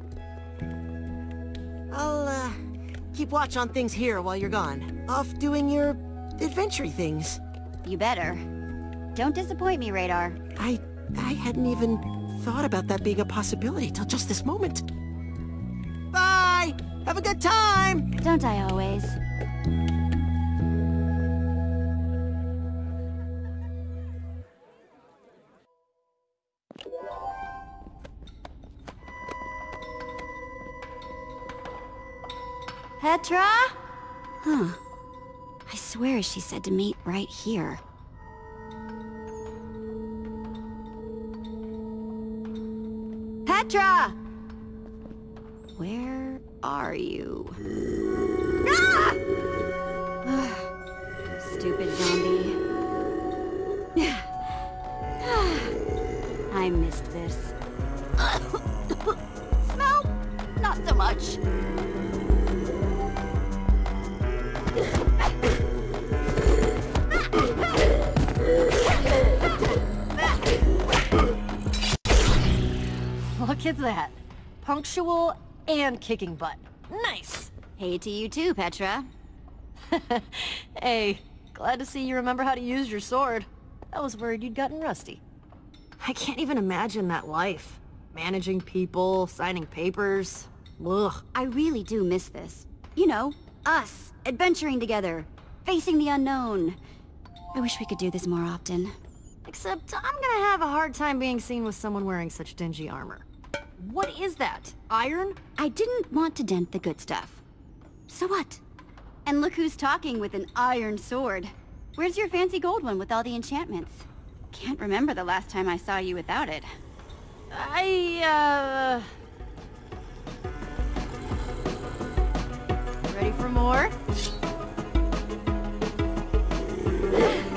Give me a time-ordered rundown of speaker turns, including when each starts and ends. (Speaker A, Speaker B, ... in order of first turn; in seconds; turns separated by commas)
Speaker A: 1.9-2.6, Speaker A: 3.1-7.4, Speaker B: 7.8-8.4, Speaker B: 9.2-10.4, Speaker A: 10.6-14.8, Speaker A: 16.1-18.1, Speaker B: 18.2-19.2, Speaker B: 33.0-33.8, Speaker B: 34.4-34.8, Speaker B: 35.7-37.8, Speaker B: 43.5-44.2, Speaker B: 45.8-47.6, Speaker B: 48.6-49.2, Speaker B: 50.2-50.7, Speaker B: 51.4-52.6, Speaker B: 54.0-54.6, Speaker B: 55.2-55.8, Speaker B: 56.5-57.5, Speaker B: 58.2-58.6, Speaker B: 59.6-61.4, Speaker C: 73.3-77.5, Speaker B: 77.8-79.1, Speaker C: 79.9-85.2, Speaker C: 86.0-91.2, Speaker B: 91.3-96.8, Speaker B: 97.5-99.0, Speaker C: 99.5-103.2, Speaker C: 103.8-105.4, Speaker B: 105.6-107.4, Speaker B: 108.1-108.6, Speaker B: 109.3-116.7, Speaker C: 117.5-119.1, Speaker C: 123.1-124.0